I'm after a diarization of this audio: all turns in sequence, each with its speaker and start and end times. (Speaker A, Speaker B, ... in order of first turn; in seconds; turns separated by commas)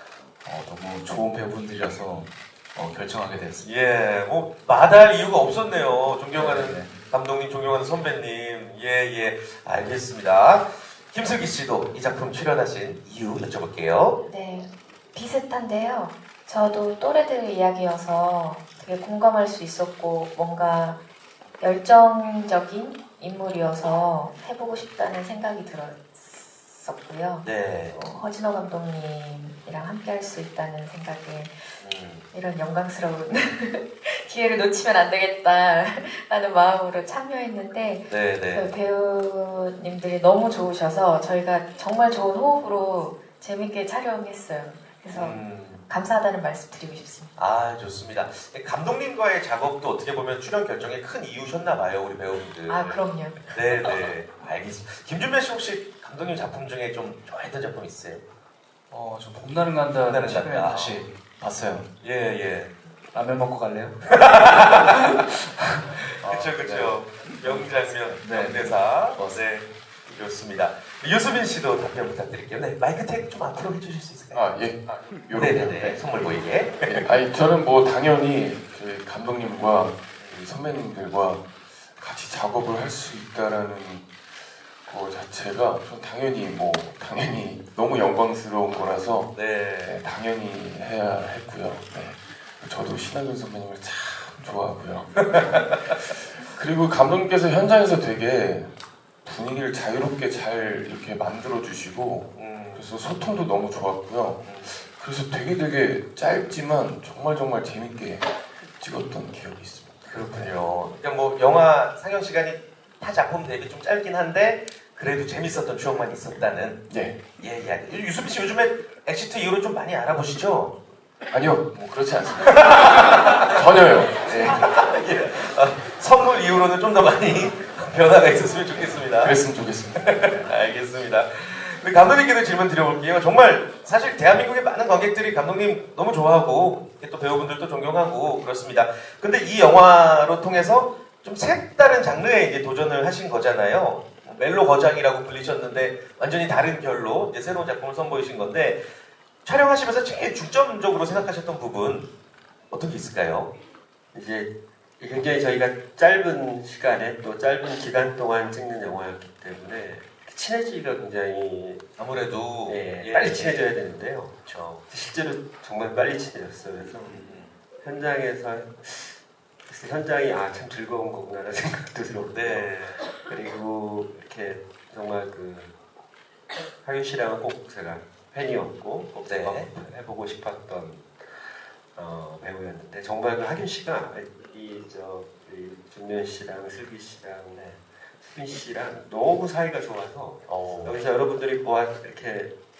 Speaker A: 0.4-3.7, Speaker B: 3.6-14.2, Speaker A: 6.3-6.9, Speaker C: 14.2-21.0, Speaker C: 21.6-31.8, Speaker B: 27.4-27.9, Speaker B: 31.8-32.2, Speaker C: 32.3-47.3, Speaker B: 38.1-38.7, Speaker B: 45.1-45.8, Speaker B: 47.4-58.2, Speaker C: 52.7-54.1, Speaker A: 58.9-61.9, Speaker B: 60.1-61.0, Speaker B: 62.0-62.7, Speaker A: 63.1-69.7, Speaker B: 64.1-65.2, Speaker B: 66.2-74.6, Speaker D: 74.3-76.0, Speaker B: 75.3-77.1, Speaker D: 77.0-84.1, Speaker D: 84.8-98.7, Speaker B: 89.3-90.0, Speaker B: 95.2-96.1, Speaker D: 99.2-110.6, Speaker B: 102.3-102.9, Speaker B: 104.4-104.7, Speaker B: 110.0-116.8, Speaker D: 116.9-117.2, Speaker B: 117.4-120.7, Speaker D: 121.3-124.7, Speaker B: 122.4-129.4, Speaker D: 129.1-130.4, Speaker B: 129.9-148.8, Speaker B: 149.4-152.1, Speaker B: 152.7-153.5, Speaker E: 154.1-161.8, Speaker B: 162.0-163.7, Speaker E: 162.7-164.3, Speaker B: 164.4-164.8, Speaker E: 164.9-175.7, Speaker B: 167.0-167.5, Speaker B: 172.3-173.0, Speaker E: 176.8-192.5, Speaker B: 179.3-179.7, Speaker B: 190.5-191.0